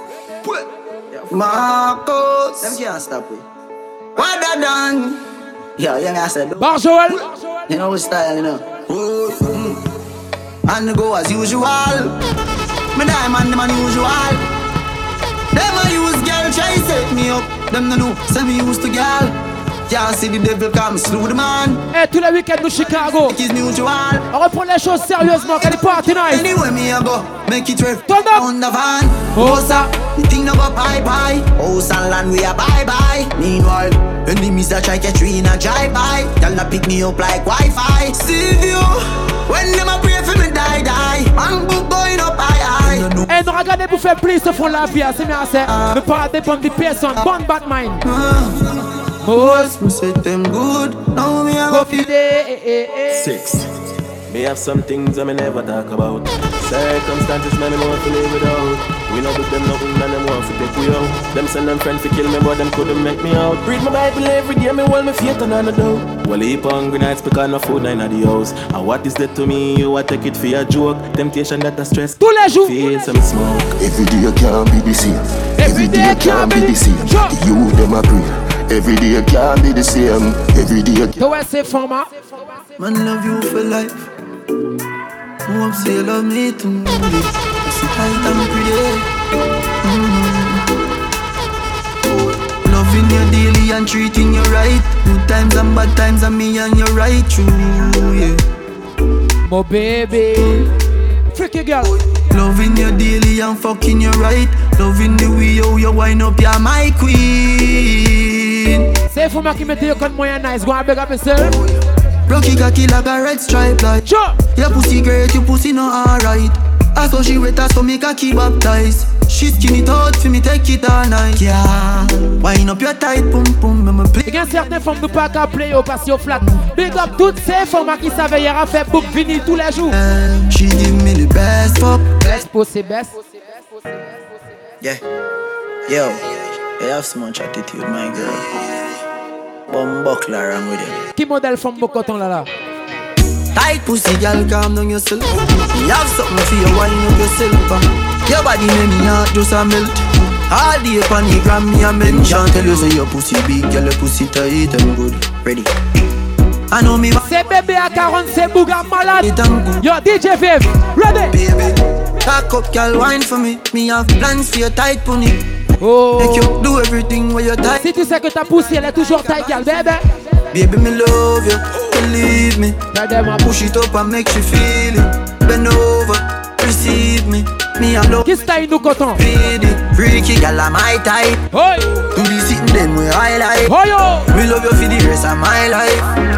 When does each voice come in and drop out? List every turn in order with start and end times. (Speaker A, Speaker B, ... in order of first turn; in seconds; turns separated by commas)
Speaker A: 1.1-3.4, Speaker A: 4.2-5.2, Speaker A: 5.8-6.6, Speaker B: 6.6-7.2, Speaker A: 7.7-9.8, Speaker A: 10.7-12.2, Speaker A: 12.9-14.4, Speaker A: 15.5-19.4, Speaker A: 19.9-21.8, Speaker B: 21.9-23.4, Speaker A: 23.3-24.3, Speaker B: 24.3-26.4, Speaker A: 26.3-43.2, Speaker B: 28.1-28.4, Speaker B: 29.3-29.9, Speaker B: 43.3-48.0, Speaker A: 45.6-46.0, Speaker A: 48.0-52.1, Speaker B: 49.2-49.7, Speaker B: 51.7-53.3, Speaker C: 54.3-73.7, Speaker B: 72.2-72.8, Speaker D: 73.8-81.2, Speaker B: 75.6-77.4, Speaker B: 81.2-82.1, Speaker A: 82.8-84.1, Speaker A: 85.5-89.1, Speaker A: 89.8-90.7, Speaker A: 92.6-98.4, Speaker B: 99.5-100.7, Speaker B: 101.3-101.9, Speaker A: 102.3-108.9, Speaker B: 109.1-111.6, Speaker A: 112.3-114.0, Speaker B: 114.1-114.3, Speaker A: 114.5-124.2, Speaker B: 124.2-130.0, Speaker A: 129.9-132.2, Speaker B: 132.2-133.2, Speaker A: 135.9-136.2, Speaker A: 136.8-138.5, Speaker A: 139.7-140.9, Speaker B: 141.2-142.5, Speaker A: 143.5-155.7, Speaker A: 156.7-157.3, Speaker B: 157.2-161.4, Speaker A: 159.2-159.8, Speaker A: 161.3-165.5, Speaker B: 165.8-166.5, Speaker A: 166.2-167.8, Speaker B: 167.8-170.0, Speaker A: 170.5-172.8, Speaker B: 172.9-173.5, Speaker A: 173.4-178.3, Speaker B: 178.2-179.2, Speaker A: 179.2-181.4, Speaker B: 181.5-181.9, Speaker A: 182.2-183.7, Speaker B: 183.7-184.3, Speaker A: 184.3-186.1